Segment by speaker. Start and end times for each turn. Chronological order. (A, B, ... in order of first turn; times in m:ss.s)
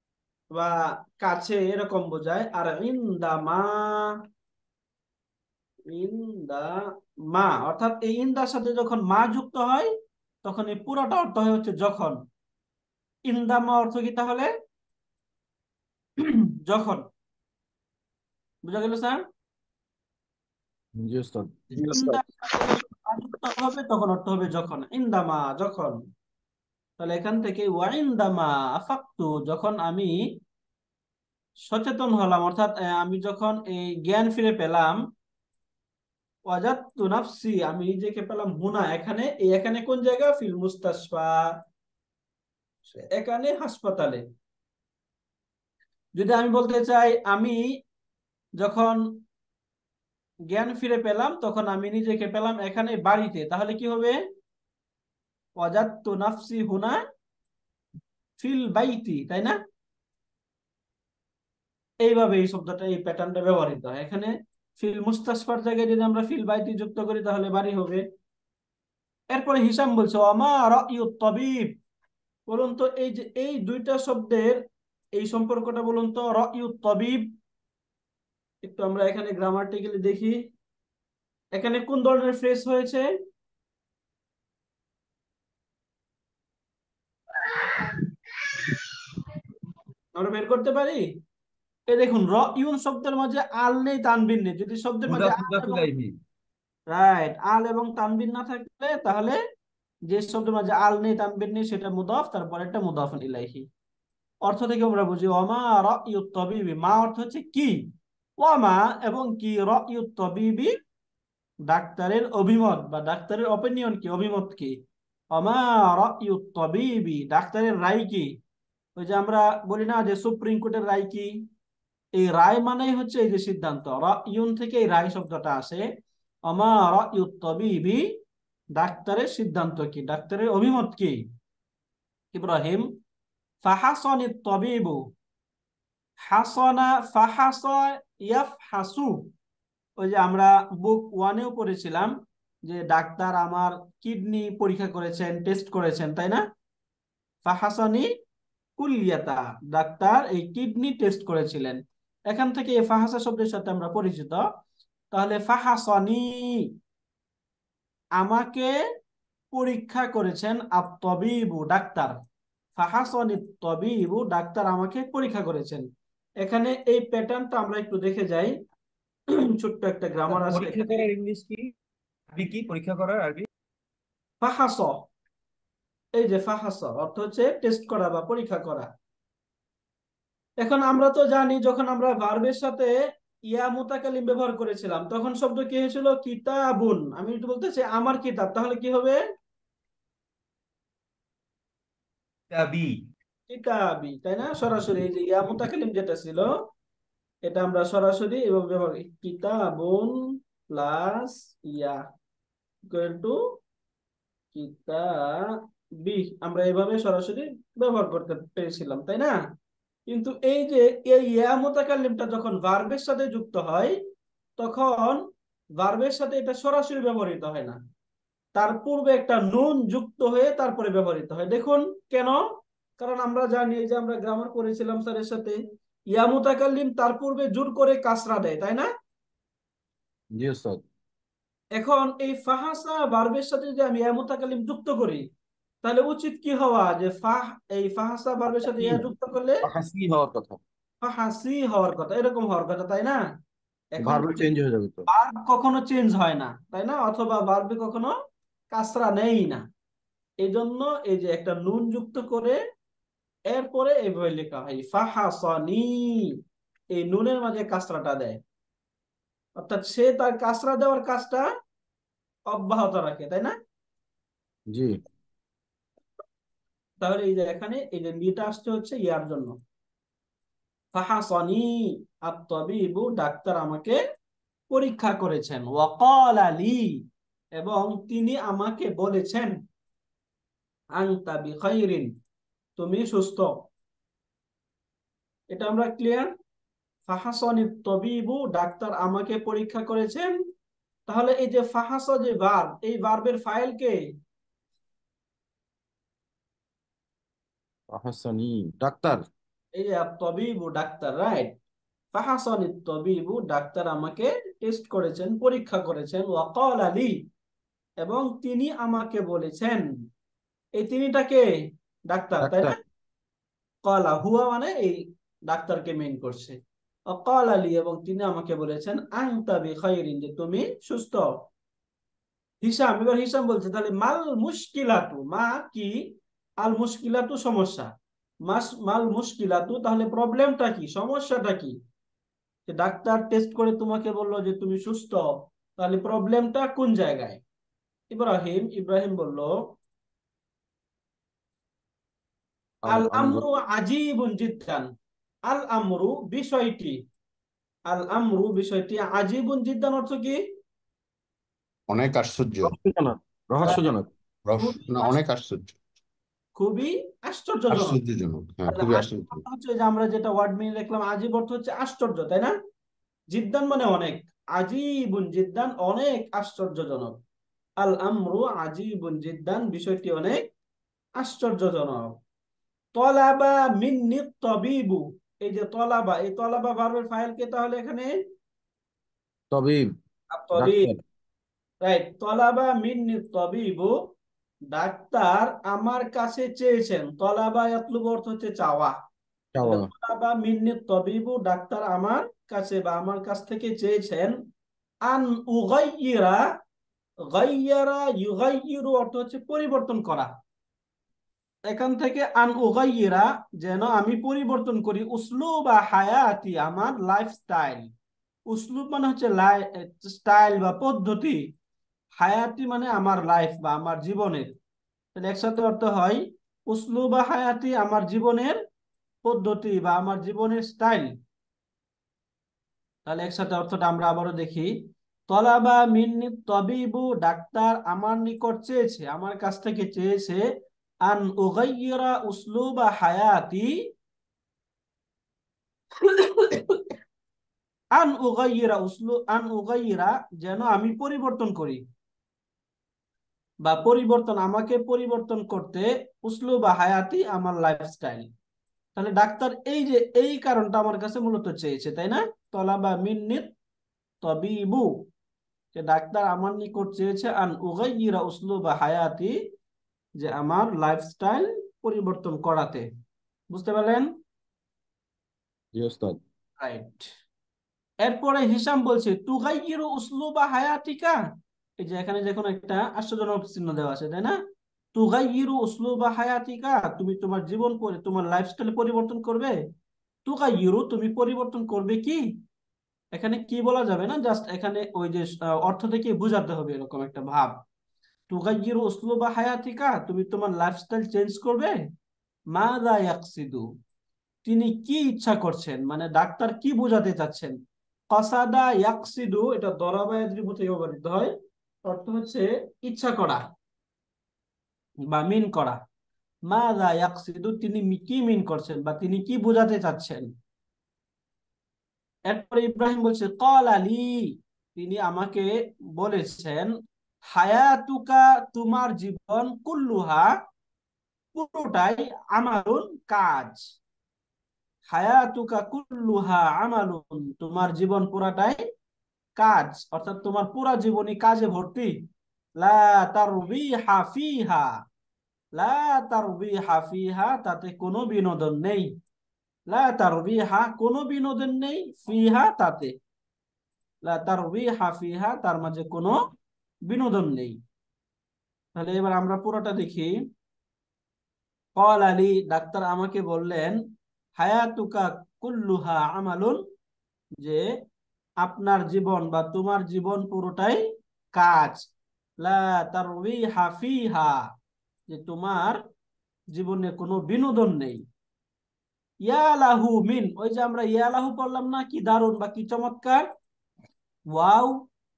0:00.5-0:04.1 A
0:05.9-0:06.8 A
0:07.3-0:09.9 A
0:10.4-0:12.2 A
0:13.3-0:14.5 A
0:16.2-0:17.0 A
0:18.6-0:19.2 A
0:21.0-0:21.7 B
0:21.8-0:26.0 A
0:27.0-0:30.2 A
0:31.7-0:35.0 A
0:36.5-0:41.5 A
0:43.1-0:44.2 A
0:46.2-0:47.6 A
0:48.6-0:49.0 A
0:50.5-0:54.2 A
0:55.6-0:57.0 A
0:58.4-0:59.6 A
1:02.0-1:08.0 A
1:09.3-1:11.7 A
1:12.5-1:14.6 A
1:15.2-1:17.2 A
1:18.6-1:20.4 A
1:21.5-1:23.1 A
1:30.1-1:31.0 A
1:31.9-1:35.8 A
1:35.1-1:36.1 C
1:36.9-1:39.4 A
1:40.1-1:43.7 A
1:44.4-1:47.8 A
1:48.4-1:50.7 A
1:51.7-1:54.8 A
1:55.3-1:58.3 A
1:59.0-2:01.3 A
2:02.2-2:05.8 A
2:06.5-2:08.0 A
2:08.8-2:11.2 A
2:12.3-2:12.8 A
2:13.6-2:15.0 A
2:16.3-2:19.2 A
2:20.0-2:22.1 A
2:22.6-2:26.4 A
2:27.4-2:28.1 A
2:28.8-2:34.4 A
2:35.1-2:36.6 A
2:38.2-2:38.7 A
2:39.5-2:42.2 A
2:42.8-2:45.9 A
2:46.4-2:48.5 A
2:49.6-2:51.0 A
2:50.3-2:51.7 C
2:52.3-2:53.5 C
2:54.4-2:55.0 A
2:56.2-2:58.9 A
3:00.6-3:02.9 A
3:03.5-3:09.2 A
3:12.5-3:12.9 C
3:13.5-3:16.5 A
3:17.4-3:20.1 A
3:20.7-3:22.0 A
3:22.9-3:23.4 A
3:24.5-3:29.3 A
3:30.1-3:34.0 A
3:34.6-3:35.2 A
3:35.8-3:37.8 A
3:38.6-3:42.4 A
3:43.0-3:45.6 A
3:46.1-3:48.9 A
3:50.4-3:50.8 B
3:51.8-3:55.2 A
3:55.8-3:59.6 A
3:59.6-4:00.6 B
4:01.0-4:03.2 A
4:03.9-4:04.5 A
4:04.0-4:05.0 B
4:05.1-4:08.1 A
4:08.7-4:09.6 A
4:10.4-4:12.6 A
4:13.5-4:16.3 A
4:16.9-4:18.4 A
4:19.6-4:21.4 A
4:22.5-4:23.5 A
4:24.7-4:25.0 B
4:27.0-4:29.6 A
4:30.9-4:31.7 A
4:32.2-4:34.0 A
4:34.7-4:36.9 A
4:37.6-4:39.5 A
4:41.0-4:42.1 A
4:42.8-4:43.5 A
4:45.5-4:46.3 A
4:47.1-4:50.3 A
4:51.1-4:54.0 A
4:57.9-4:59.2 B
4:59.7-5:01.5 A
5:02.1-5:07.2 A
5:08.0-5:09.8 A
5:10.8-5:11.4 A
5:12.1-5:12.8 A
5:12.4-5:12.7 B
5:13.8-5:16.6 A
5:17.1-5:21.3 A
5:22.6-5:26.0 A
5:26.6-5:27.9 A
5:28.4-5:31.8 A
5:32.7-5:37.4 A
5:38.1-5:39.5 A
5:42.8-5:43.4 B
5:42.8-5:44.9 A
5:45.5-5:47.0 A
5:47.9-5:50.4 A
5:51.9-5:52.8 D
5:52.6-5:54.1 B
5:54.4-5:55.7 D
5:54.6-5:55.2 A
5:56.6-5:58.0 A
5:57.7-5:59.4 D
5:58.7-6:02.5 A
6:03.3-6:07.2 A
6:07.8-6:10.4 A
6:11.2-6:12.1 A
6:12.9-6:18.1 A
6:19.5-6:19.9 B
6:20.3-6:20.9 A
6:20.6-6:21.0 B
6:21.8-6:23.9 A
6:24.7-6:29.0 A
6:29.5-6:29.9 B
6:29.6-6:34.3 A
6:35.1-6:36.4 A
6:37.3-6:40.3 A
6:41.7-6:47.9 A
6:48.5-6:51.4 A
6:52.2-6:54.5 A
6:55.2-6:58.6 A
6:59.2-7:01.1 A
7:03.0-7:04.7 A
7:05.3-7:10.4 A
7:11.0-7:13.7 A
7:16.0-7:16.8 A
7:18.0-7:21.8 A
7:23.6-7:28.3 A
7:29.0-7:33.5 A
7:34.2-7:34.9 A
7:35.7-7:39.3 A
7:40.2-7:42.9 A
7:43.5-7:44.1 A
7:45.7-7:46.2 B
7:46.6-7:47.0 A
7:48.0-7:51.2 A
7:51.8-7:54.4 A
7:54.9-7:59.6 A
8:00.2-8:02.2 A
8:03.1-8:07.6 A
8:08.3-8:11.8 A
8:12.5-8:13.6 A
8:14.4-8:17.6 A
8:18.1-8:21.3 A
8:21.8-8:23.4 A
8:25.1-8:25.8 A
8:26.5-8:30.3 A
8:32.3-8:34.1 A
8:34.8-8:36.7 A
8:37.3-8:40.3 A
8:41.3-8:43.6 A
8:44.9-8:48.6 A
8:49.4-8:51.9 A
8:52.6-8:54.7 A
8:55.6-8:58.9 A
8:59.7-9:02.9 A
9:04.0-9:06.2 A
9:06.9-9:07.6 A
9:08.8-9:10.1 A
9:11.8-9:13.8 A
9:14.4-9:16.6 A
9:18.4-9:20.8 A
9:21.3-9:21.8 A
9:22.4-9:24.5 A
9:25.1-9:25.8 A
9:26.5-9:28.0 A
9:29.2-9:33.2 A
9:34.3-9:34.8 A